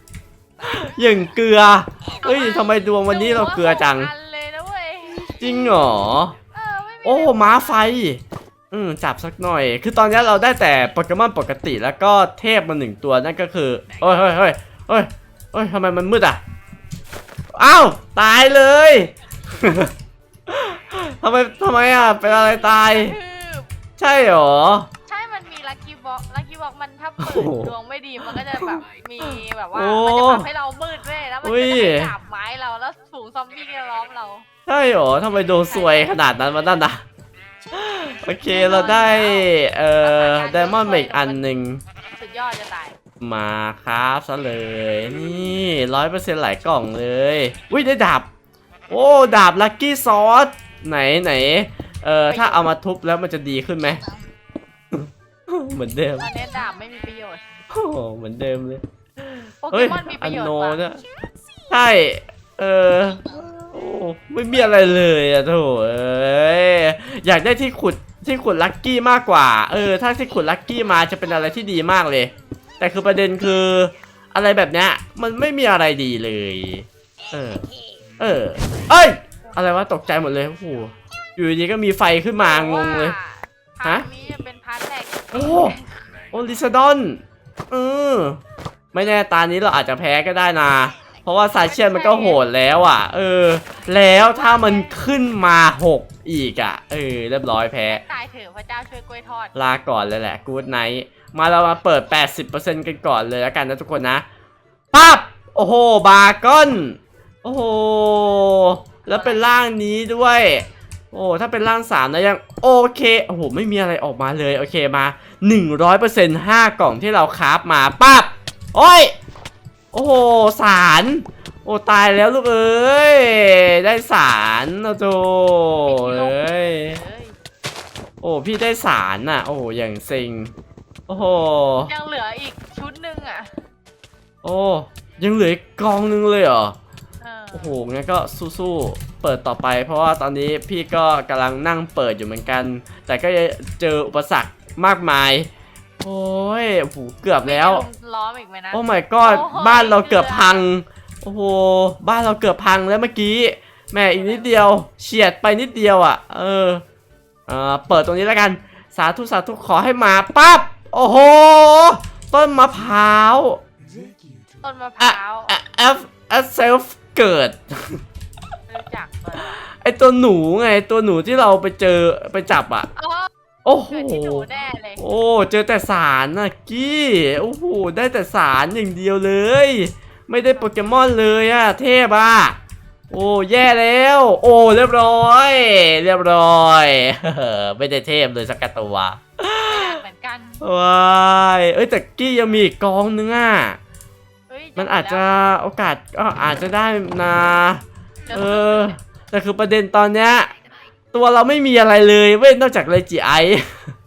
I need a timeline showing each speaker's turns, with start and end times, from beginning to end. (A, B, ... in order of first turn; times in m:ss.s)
0:00.6-0:04.1 A
0:02.2-0:05.8 B
0:05.4-0:06.3 A
0:06.5-0:07.9 B
0:07.0-0:16.4 A
0:17.5-0:19.9 A
0:20.5-0:23.2 A
0:21.8-0:23.7 B
0:24.0-0:24.9 A
0:25.1-0:34.4 B
0:27.2-0:27.7 A
0:28.3-0:28.8 A
0:29.7-0:30.5 A
0:31.4-0:32.1 A
0:34.7-0:37.0 A
0:35.7-0:36.2 B
0:37.7-0:41.8 A
0:38.4-0:41.5 B
0:42.1-0:43.0 B
0:43.2-0:48.3 A
0:48.9-0:54.0 A
0:52.3-0:52.6 B
0:54.9-0:56.3 A
0:56.2-0:57.5 B
0:57.7-1:01.0 A
0:59.6-1:00.8 B
1:01.7-1:17.6 A
1:18.2-1:23.2 A
1:22.4-1:26.3 B
1:25.3-1:25.8 A
1:26.3-1:28.4 A
1:28.9-1:38.0 A
1:31.6-1:32.4 B
1:34.1-1:35.1 B
1:37.9-1:39.5 B
1:39.5-1:44.2 A
1:44.9-1:59.1 A
1:49.0-1:49.5 B
1:59.9-2:07.0 A
2:05.8-2:07.4 B
2:08.2-2:10.5 A
2:11.1-2:11.9 A
2:11.8-2:13.6 B
2:14.4-2:16.8 A
2:17.2-2:17.8 B
2:17.5-2:25.5 A
2:26.0-2:27.8 A
2:27.4-2:30.6 B
2:28.7-2:36.8 A
2:34.1-2:34.5 B
2:37.5-2:43.6 A
2:44.6-2:45.5 B
2:45.0-2:48.0 A
2:48.7-2:49.6 B
2:49.6-2:52.9 A
2:53.0-2:53.3 B
2:53.6-2:54.5 A
2:53.9-2:55.0 B
2:55.0-3:02.6 A
3:00.5-3:01.1 B
3:03.1-3:10.0 A
3:09.6-3:10.6 B
3:10.6-3:13.8 A
3:14.5-3:15.3 B
3:14.8-3:20.5 A
3:18.3-3:19.0 B
3:21.1-3:23.9 A